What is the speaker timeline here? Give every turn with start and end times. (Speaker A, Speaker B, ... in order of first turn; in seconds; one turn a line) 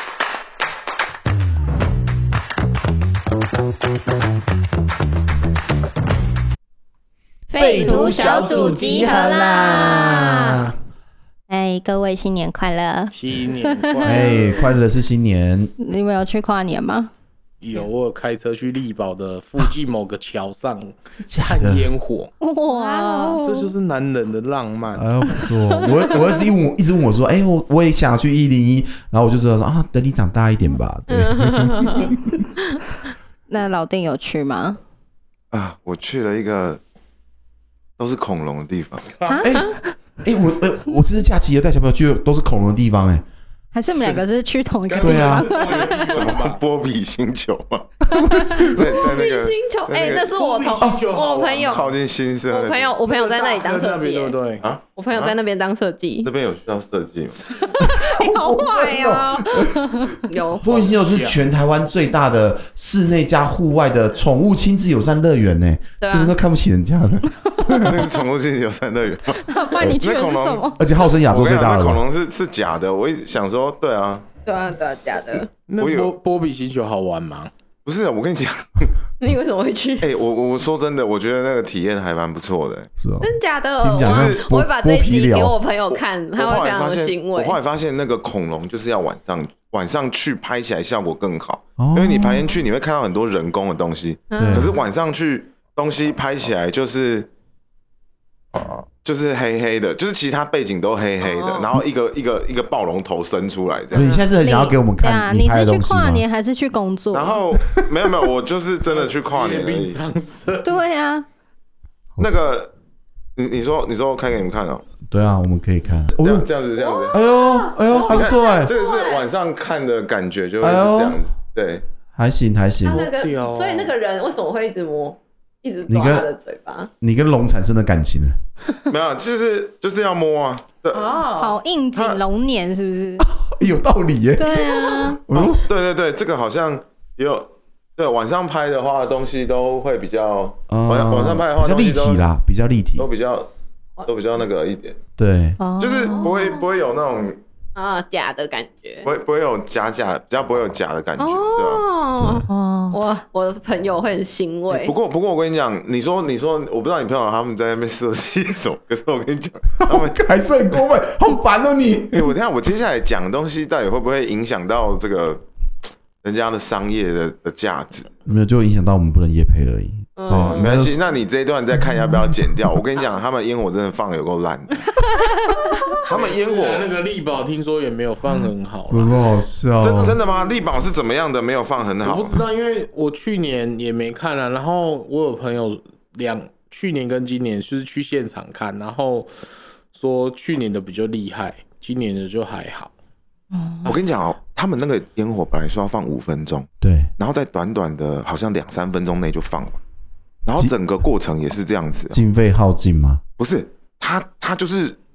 Speaker A: 7.5-10.7
Speaker B: 7.5-9.5
Speaker C: 7.5-10.7
Speaker A: 11.5-14.7
Speaker D: 13.1-14.7
Speaker C: 14.0-15.7
Speaker A: 15.8-17.1
Speaker D: 17.6-22.3
Speaker C: 21.3-21.9
Speaker A: 22.4-23.7
Speaker B: 22.7-23.4
Speaker D: 23.4-25.1
Speaker C: 24.9-32.5
Speaker A: 25.3-26.2
Speaker B: 31.1-32.1
Speaker A: 33.5-34.8
Speaker E: 35.5-36.8
Speaker E: 38.0-39.1
Speaker D: 39.1-39.4
Speaker A: 39.3-39.8
Speaker C: 39.4-43.2
Speaker A: 43.7-46.2
Speaker D: 44.9-46.6
Speaker C: 45.0-45.5
Speaker E: 45.9-48.0
Speaker C: 48.1-49.0
Speaker A: 48.1-48.8
Speaker E: 48.6-50.3
Speaker B: 48.8-51.9
Speaker D: 50.3-51.9
Speaker E: 51.6-53.0
Speaker B: 52.5-54.4
Speaker D: 53.0-54.6
Speaker E: 54.6-55.3
Speaker B: 54.9-56.3
Speaker E: 56.2-57.4
Speaker A: 57.8-60.2
Speaker C: 57.8-68.0
Speaker B: 60.3-60.6
Speaker D: 60.6-61.4
Speaker B: 66.0-66.3
Speaker E: 67.7-74.3
Speaker A: 69.3-70.8
Speaker C: 70.8-72.0
Speaker B: 74.4-75.5
Speaker D: 75.7-77.5
Speaker E: 75.8-76.1
Speaker E: 77.8-79.0
Speaker B: 79.2-80.1
Speaker E: 80.0-82.9
Speaker C: 83.0-85.5
Speaker B: 83.2-87.6
Speaker E: 84.0-84.5
Speaker E: 86.3-97.3
Speaker C: 91.8-92.5
Speaker B: 94.3-94.8
Speaker C: 94.4-94.7
Speaker E: 98.5-104.2
Speaker B: 101.2-101.7
Speaker B: 103.9-104.2
Speaker C: 103.9-106.2
Speaker A: 104.3-107.4
Speaker E: 107.1-110.0
Speaker C: 107.6-108.1
Speaker D: 108.8-110.8
Speaker A: 110.6-111.2
Speaker E: 112.2-112.7
Speaker E: 113.3-114.8
Speaker C: 115.1-116.5
Speaker E: 116.2-117.2
Speaker B: 116.8-119.2
Speaker C: 117.1-118.7
Speaker E: 117.9-121.8
Speaker C: 120.6-121.2
Speaker C: 122.2-123.1
Speaker B: 122.8-126.9
Speaker D: 122.9-123.9
Speaker C: 125.9-126.2
Speaker C: 127.0-128.3
Speaker E: 128.9-131.2
Speaker B: 130.9-131.5
Speaker A: 131.3-133.2
Speaker E: 131.9-132.2
Speaker C: 133.2-135.6
Speaker A: 134.3-135.2
Speaker E: 135.3-142.2
Speaker C: 140.7-143.1
Speaker E: 143.0-143.5
Speaker E: 144.0-145.0
Speaker C: 145.2-145.6
Speaker A: 145.6-146.3
Speaker E: 145.8-147.4
Speaker B: 146.1-146.7
Speaker B: 147.7-149.1
Speaker E: 149.0-151.8
Speaker B: 151.2-154.9
Speaker C: 152.2-152.5
Speaker A: 152.5-153.0
Speaker E: 154.7-160.2
Speaker C: 159.8-162.3
Speaker E: 162.1-165.4
Speaker E: 166.2-168.1
Speaker C: 168.2-171.0
Speaker B: 170.2-170.8
Speaker E: 170.3-175.2
Speaker C: 171.7-172.7
Speaker E: 176.0-176.9
Speaker D: 176.1-179.2
Speaker C: 178.9-180.2
Speaker E: 179.8-182.4
Speaker B: 180.0-180.5
Speaker D: 182.0-189.3
Speaker D: 189.9-192.9
Speaker A: 193.5-194.0
Speaker E: 193.8-199.8
Speaker C: 196.8-197.1
Speaker E: 200.4-202.2
Speaker C: 202.1-203.2
Speaker E: 203.4-205.0